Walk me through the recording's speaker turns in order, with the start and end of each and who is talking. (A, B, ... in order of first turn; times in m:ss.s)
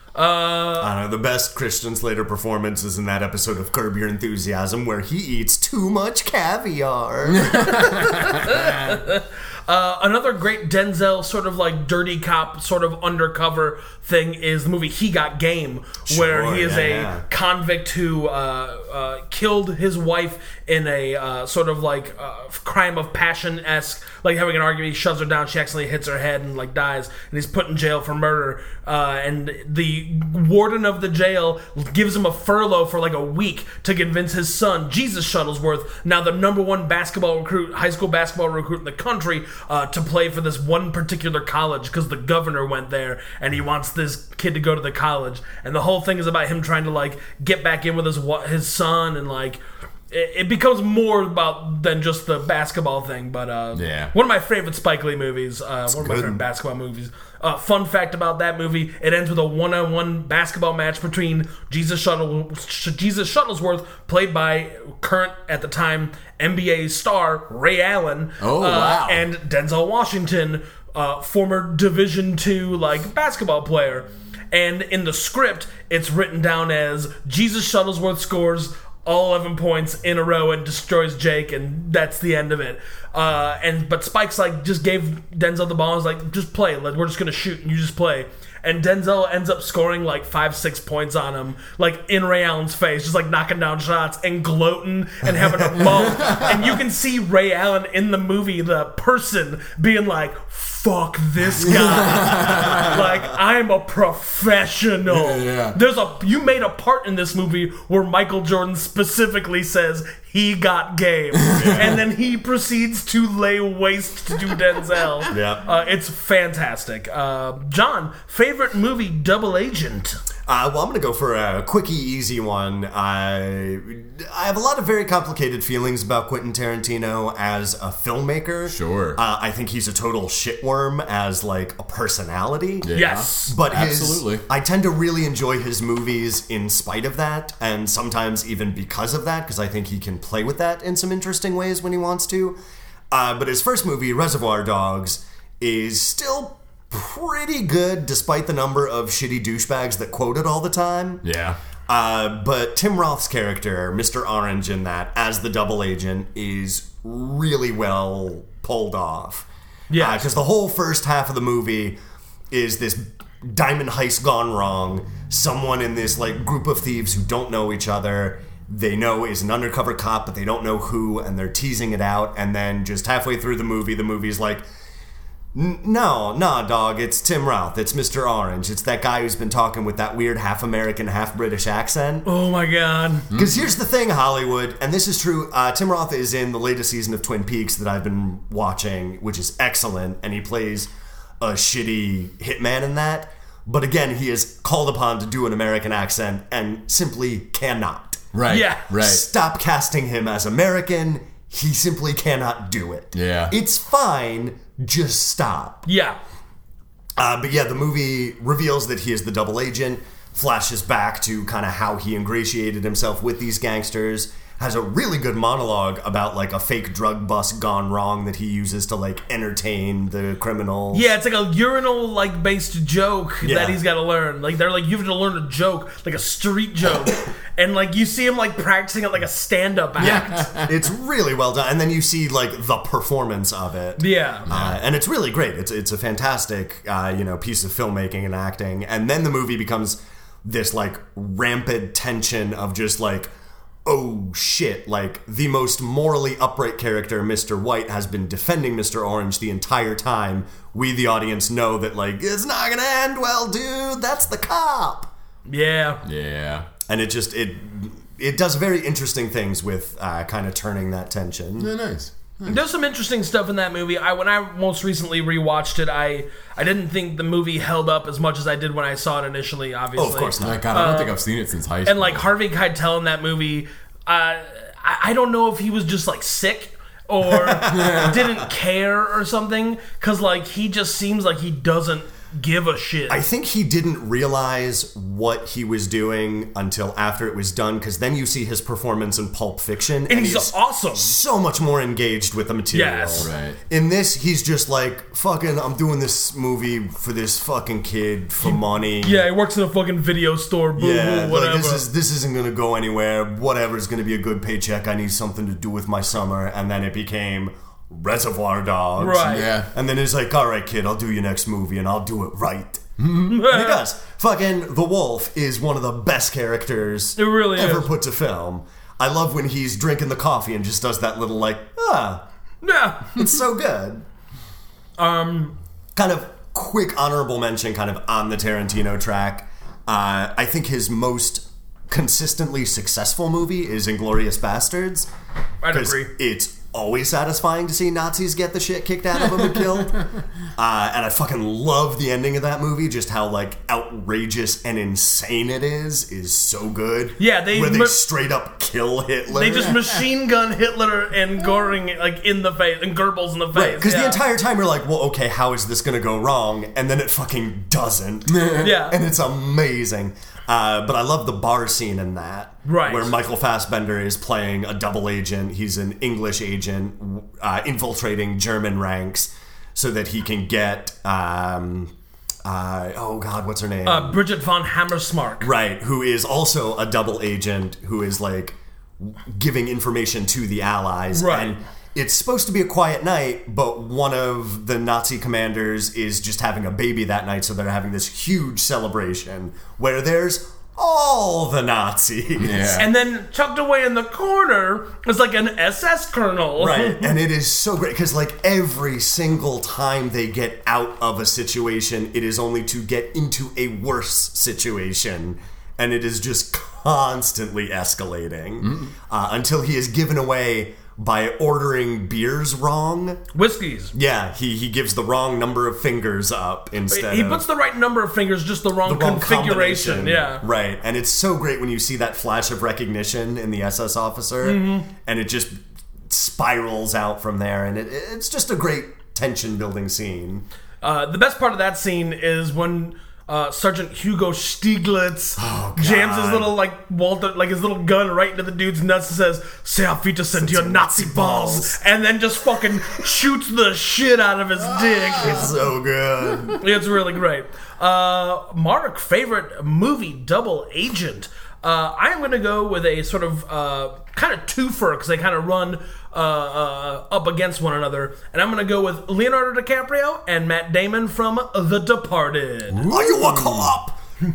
0:00.2-0:00.9 A
0:00.8-0:07.7 B
0:07.3-0:08.9 C
0:07.6-0:49.6 A
0:16.1-0:17.2 B
0:50.1-2:00.2 A
0:53.7-0:54.1 C
0:55.9-0:56.4 B
1:08.4-1:09.2 C
1:35.2-1:36.5 B
1:35.8-1:36.6 C
1:41.6-1:43.1 B
1:41.6-1:43.0 C
1:45.1-1:45.8 C
1:51.4-1:51.8 C
1:51.5-1:52.0 B
1:55.3-1:55.6 B
2:00.5-2:12.9 B
2:08.7-2:09.2 C
2:12.8-2:14.4 C
2:13.0-2:13.6 A
2:13.5-2:22.6 B
2:23.1-2:31.2 B
2:31.2-2:31.6 C
2:31.9-2:42.0 B
2:39.9-2:40.3 A
2:42.5-2:54.6 B
2:55.5-3:02.3 B
3:02.2-3:03.3 A
3:03.3-3:10.9 B
3:11.4-3:18.3 B
3:18.3-3:19.2 C
3:18.5-3:18.9 A
3:19.0-3:25.9 B
3:23.1-3:23.5 C
3:25.9-3:26.2 A
3:27.2-3:41.1 B
3:40.9-3:50.5 A
3:43.4-3:43.8 B
3:50.0-4:03.3 B
3:50.0-3:50.7 C
3:54.0-3:54.5 A
3:54.5-3:54.8 C
4:03.8-4:15.1 B
4:15.5-4:16.0 A
4:16.0-4:16.7 C
4:16.9-4:21.7 B
4:21.6-4:22.6 C
4:22.5-4:31.2 A
4:30.0-4:30.7 B
4:30.4-4:32.3 C
4:31.8-4:43.2 A
4:37.2-4:38.2 B
4:37.7-4:38.2 C
4:43.1-4:59.2 B
4:50.1-4:51.2 A
4:52.7-4:53.3 A
4:53.2-4:53.6 C
4:58.4-5:01.8 A
5:00.8-5:22.2 B
5:09.0-5:09.5 A
5:09.2-5:09.7 C
5:13.0-5:13.4 C
5:13.3-5:13.8 A
5:17.2-5:17.9 A
5:22.6-5:23.3 A
5:23.1-5:24.0 B
5:25.0-5:25.6 A
5:26.0-5:35.1 B
5:35.6-5:36.1 A
5:35.7-5:40.0 B
5:40.6-5:49.8 B
5:47.2-5:48.0 A
5:49.3-5:54.2 A
5:53.5-6:11.9 B
5:58.3-5:58.8 C
5:58.6-5:59.0 A
6:02.6-6:03.1 A
6:12.4-6:14.2 B
6:13.8-6:15.5 A
6:15.4-6:32.8 B
6:21.1-6:21.5 A
6:32.4-6:32.9 C
6:32.8-6:37.1 A
6:36.6-6:53.2 B
6:48.6-6:48.9 C
6:53.3-6:53.9 A
6:53.9-6:57.4 B
6:56.9-7:00.4 A
6:58.8-7:05.6 B
7:04.4-7:04.9 A
7:06.1-7:10.4 B
7:10.8-7:25.5 A
7:15.4-7:16.6 B
7:20.3-7:21.8 B
7:24.7-7:25.6 C
7:25.2-7:26.6 B
7:26.6-7:42.9 A
7:42.7-7:44.0 B
7:42.9-7:43.7 C